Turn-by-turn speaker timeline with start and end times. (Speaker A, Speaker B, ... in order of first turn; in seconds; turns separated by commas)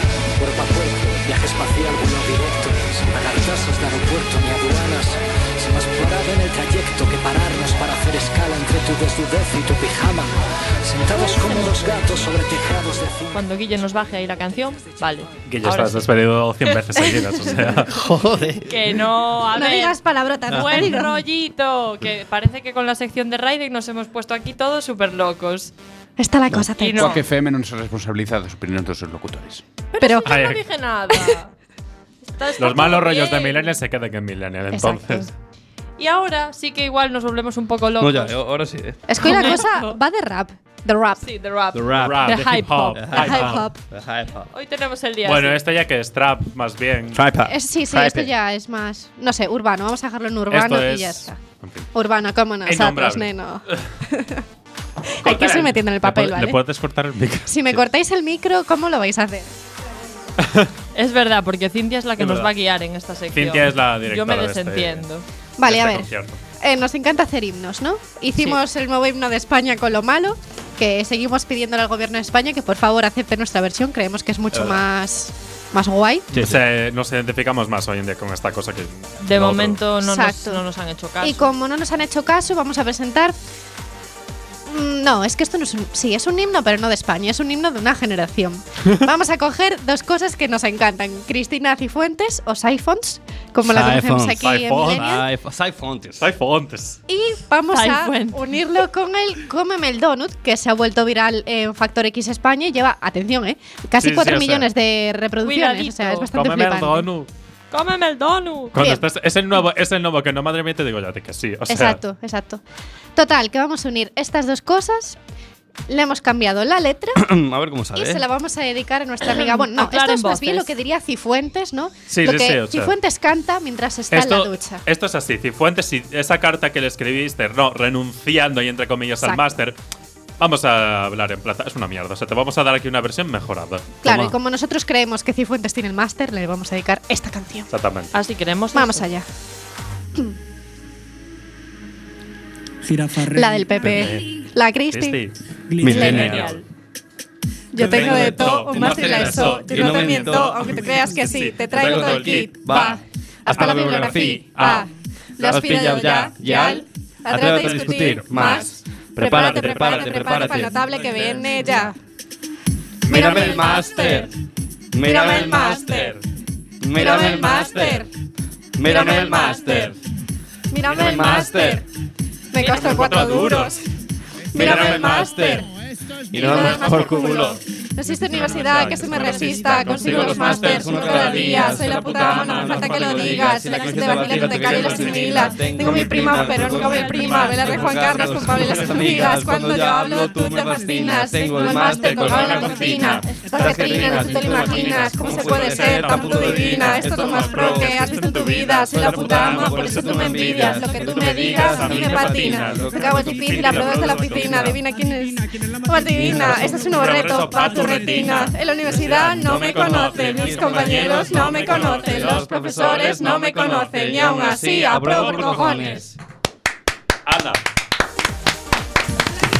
Speaker A: 0.4-13.4, Speaker B: 11.2-11.8, Speaker C: 13.3-16.0, Speaker D: 15.4-17.9, Speaker E: 17.9-18.7, Speaker C: 18.6-20.0, Speaker B: 19.5-21.1, Speaker C: 20.5-25.7, Speaker E: 20.5-20.9, Speaker B: 26.2-27.2, Speaker C: 26.8-27.2, Speaker F: 27.0-29.6, Speaker C: 29.9-31.5, Speaker B: 30.0-30.3, Speaker D: 30.2-30.6, Speaker C: 32.2-33.7, Speaker D: 32.6-35.3, Speaker B: 34.7-35.3, Speaker C: 36.0-38.4, Speaker E: 38.0-39.0, Speaker B: 39.1-41.2, Speaker C: 39.2-40.0, Speaker C: 41.2-43.4, Speaker E: 41.7-44.5, Speaker D: 42.0-43.7, Speaker B: 43.2-43.8, Speaker C: 44.5-45.6, Speaker D: 45.2-47.2, Speaker E: 47.1-48.3, Speaker B: 47.5-51.4, Speaker D: 50.5-51.9, Speaker B: 51.9-54.4, Speaker D: 52.6-53.8, Speaker B: 55.1-56.6, Speaker D: 55.2-57.8, Speaker B: 57.5-59.5, Speaker D: 60.4-60.7, Speaker C: 60.9-65.2, Speaker D: 62.2-62.5, Speaker D: 63.3-65.0, Speaker B: 65.6-66.1, Speaker D: 65.6-66.4, Speaker B: 66.6-76.3, Speaker E: 76.3-76.6, Speaker D: 76.3-79.8, Speaker C: 79.2-81.5, Speaker B: 80.0-80.6, Speaker B: 81.2-83.3, Speaker B: 84.7-95.2, Speaker E: 93.6-96.2, Speaker D: 94.4-95.2, Speaker D: 96.2-97.0, Speaker B: 97.1-107.1, Speaker C: 97.7-98.4, Speaker D: 104.0-104.7, Speaker C: 105.4-106.3, Speaker D: 106.3-107.3, Speaker C: 107.7-108.8, Speaker D: 108.7-112.0, Speaker B: 108.8-109.0, Speaker B: 111.7-112.6, Speaker B: 113.2-115.2, Speaker B: 115.9-117.2, Speaker E: 117.2-118.2, Speaker B: 117.9-124.8, Speaker C: 119.2-120.7, Speaker D: 122.1-122.9, Speaker D: 124.1-129.8, Speaker D: 130.4-134.2, Speaker B: 134.0-137.7, Speaker E: 134.1-134.3, Speaker D: 137.7-138.1, Speaker C: 138.1-139.1, Speaker B: 138.7-139.2, Speaker G: 142.8-143.9, Speaker B: 143.3-145.2, Speaker D: 143.8-144.2, Speaker D: 144.9-145.3, Speaker G: 145.7-146.0, Speaker E: 145.8-146.5, Speaker B: 145.9-146.3, Speaker D: 145.9-146.6, Speaker C: 145.9-146.6, Speaker B: 147.7-161.9, Speaker E: 147.8-150.8, Speaker D: 147.8-153.0, Speaker E: 151.7-154.8, Speaker D: 153.5-154.8, Speaker E: 155.4-160.9, Speaker D: 157.4-158.7, Speaker D: 159.3-161.9, Speaker D: 163.0-164.0, Speaker E: 163.1-164.3, Speaker B: 163.1-164.2, Speaker C: 163.9-164.2, Speaker E: 164.9-166.1, Speaker B: 165.0-166.1, Speaker D: 165.3-166.2, Speaker E: 166.8-168.1, Speaker B: 166.9-168.1, Speaker D: 167.5-167.9, Speaker E: 168.8-169.9, Speaker D: 168.9-169.9, Speaker C: 168.9-169.7, Speaker B: 168.9-169.6, Speaker B: 170.7-171.8, Speaker D: 170.8-171.8, Speaker E: 170.9-171.8, Speaker B: 172.5-173.8, Speaker D: 172.6-173.8, Speaker C: 172.6-172.9, Speaker D: 174.5-175.6, Speaker E: 174.5-175.6, Speaker B: 174.5-175.7, Speaker E: 176.3-177.6, Speaker B: 176.3-216.0, Speaker D: 176.4-177.6, Speaker D: 178.3-187.8, Speaker C: 178.3-179.9, Speaker E: 180.0-192.8, Speaker C: 186.8-187.4, Speaker D: 188.5-189.2, Speaker G: 190.4-193.7, Speaker D: 191.8-204.8, Speaker E: 193.5-198.3, Speaker E: 198.8-203.8, Speaker G: 204.0-204.3, Speaker E: 204.4-204.8, Speaker G: 204.8-208.3, Speaker E: 206.2-206.7, Speaker D: 206.3-216.0, Speaker E: 209.3-216.1, Speaker D: 217.2-217.6